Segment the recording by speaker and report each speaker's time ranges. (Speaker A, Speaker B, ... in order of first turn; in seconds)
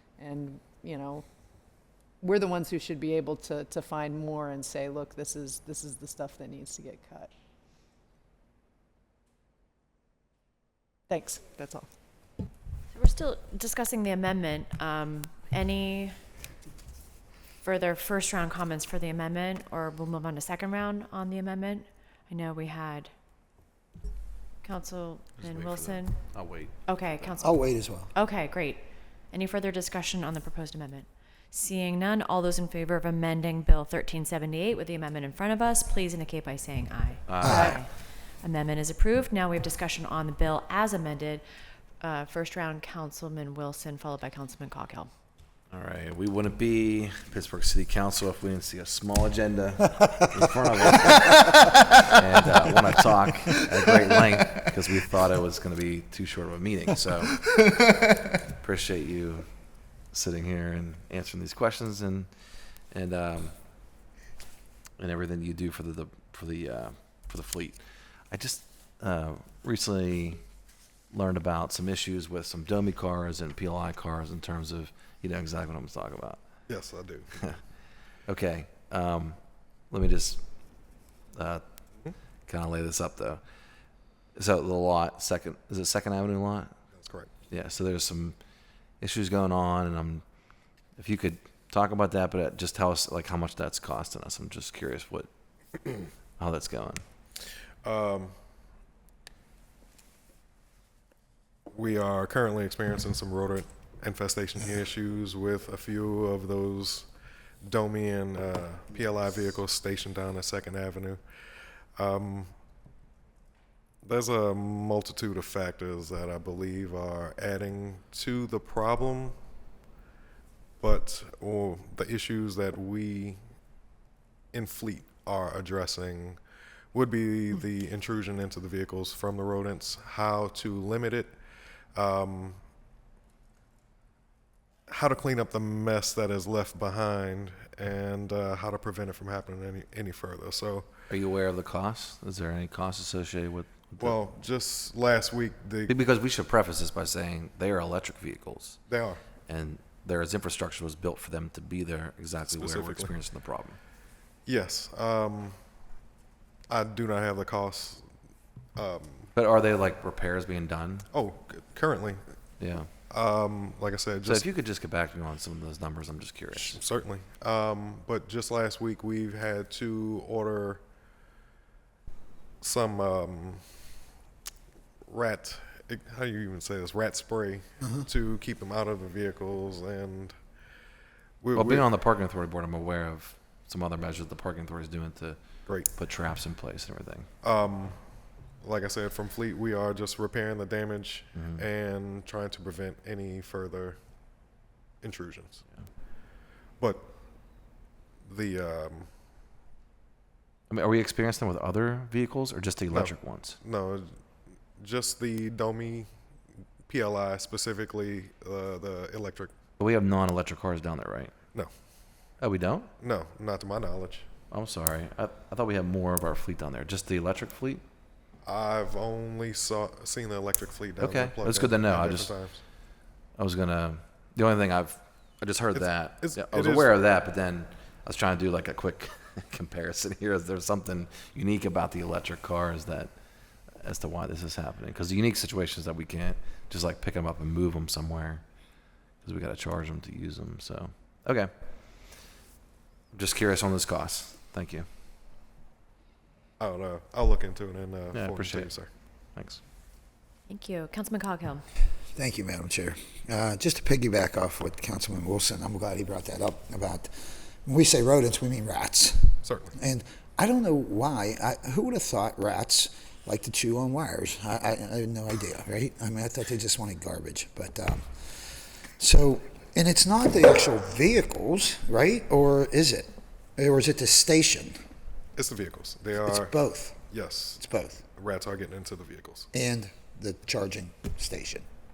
Speaker A: 0.2-1.2, 2.2-7.3, 11.1-11.9
Speaker B: 12.9-16.1, 17.6-23.1, 24.6-26.2, 26.9-41.4, 42.0-45.1, 250.5-251.6
Speaker C: 25.4-27.3, 37.3-37.8, 45.7-57.5, 58.6-59.5, 60.1-62.3, 62.9-63.5, 65.0-67.8, 68.3-70.4, 71.1-76.4, 78.3-79.4, 79.9-80.4, 81.3-81.6, 82.5-83.4, 84.3-86.7, 87.5-88.3, 89.0-90.2, 91.0-95.3, 96.4-97.0, 141.1-144.2, 145.9-148.8, 149.5-153.8, 159.3-161.1, 162.6-162.9, 164.2-166.8, 181.5-187.3, 191.3-191.6, 200.7-203.6, 209.8-211.3, 212.4-212.9, 214.5-217.8, 221.0-222.3, 223.3-233.1, 233.8-238.4, 239.2-241.5, 243.1-244.9, 248.1-248.7, 249.3-249.6
Speaker D: 27.4-28.1, 37.4-37.8, 53.9-54.4, 252.1-257.1, 257.6-274.8, 276.2-277.0, 277.6-278.0, 279.5-281.6
Speaker E: 76.7-77.6, 86.9-87.3, 97.8-98.3, 101.7-107.1, 107.6-111.2, 112.0-112.5, 114.0-119.3, 120.8-123.4, 124.5-126.4, 126.9-131.3, 131.9-132.6, 134.9-140.9, 144.0-146.0, 148.9-149.2, 152.4-153.1, 154.4-155.6, 156.7-158.1, 158.8-159.3, 161.1-162.2, 163.1-164.5, 166.5-170.8, 172.6-173.7, 175.1-180.4, 181.4-181.9, 185.7-185.9, 187.4-188.0, 188.6-194.0, 195.0-195.6, 196.8-197.1, 198.2-199.1, 202.9-204.2, 204.8-206.1, 206.9-209.5, 213.0-214.3, 218.4-222.6, 225.7-226.9, 246.6-248.9, 259.4-259.7, 275.4-276.6, 277.1-277.6, 278.1-279.5